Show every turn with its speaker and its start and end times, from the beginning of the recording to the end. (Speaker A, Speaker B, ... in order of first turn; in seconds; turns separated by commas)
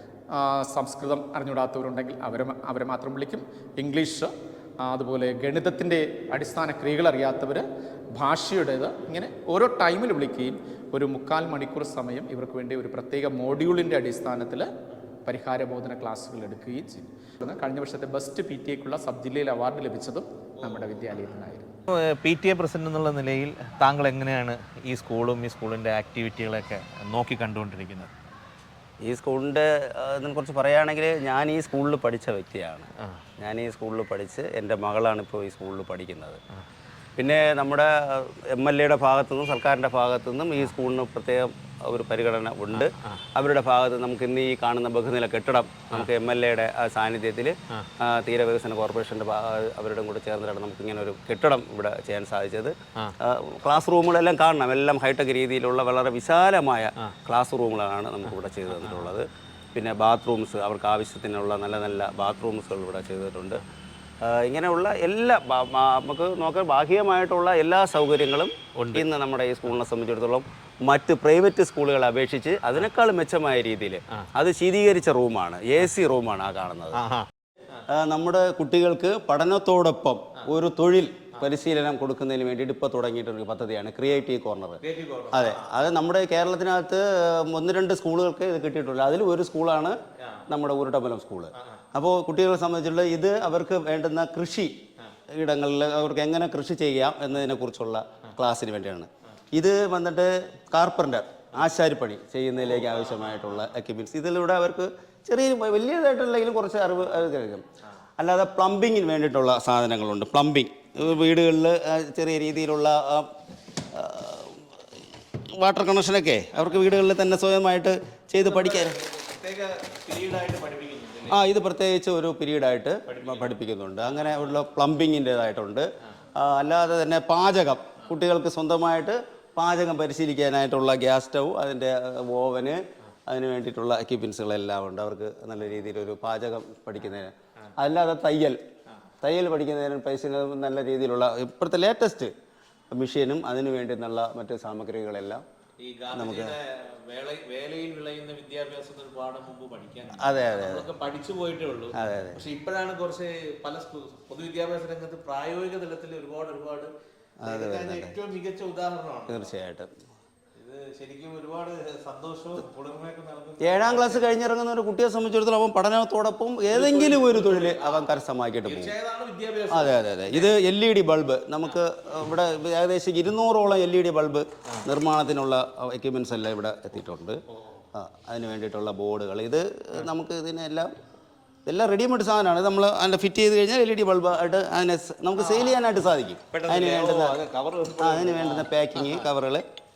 Speaker A: 0.3-4.3, Speaker A: 4.8-14.7, Speaker A: 15.2-21.7, Speaker B: 22.0-28.1, Speaker C: 29.0-36.4, Speaker C: 37.2-63.6, Speaker B: 42.7-43.2, Speaker B: 58.8-59.1, Speaker C: 64.2-77.0, Speaker B: 68.7-69.0, Speaker B: 76.9-77.3, Speaker C: 77.9-84.8, Speaker B: 84.8-85.7, Speaker C: 85.3-90.0, Speaker C: 90.5-94.8, Speaker C: 95.3-107.6, Speaker C: 108.2-113.3, Speaker C: 113.9-114.6, Speaker C: 115.6-119.0, Speaker B: 118.4-121.4, Speaker C: 121.3-138.6, Speaker B: 123.1-123.6, Speaker C: 139.2-142.3, Speaker C: 142.9-145.4, Speaker B: 145.8-156.9, Speaker C: 146.1-146.6, Speaker C: 150.2-150.9, Speaker C: 151.9-152.4, Speaker C: 157.4-158.2, Speaker B: 157.4-159.5, Speaker C: 159.3-159.9, Speaker B: 160.6-164.3, Speaker C: 163.6-168.9, Speaker B: 166.7-170.5, Speaker C: 169.7-177.4, Speaker B: 177.6-177.8, Speaker C: 177.9-180.9, Speaker C: 181.7-187.4, Speaker B: 185.3-185.8, Speaker B: 186.5-189.3, Speaker C: 188.0-189.6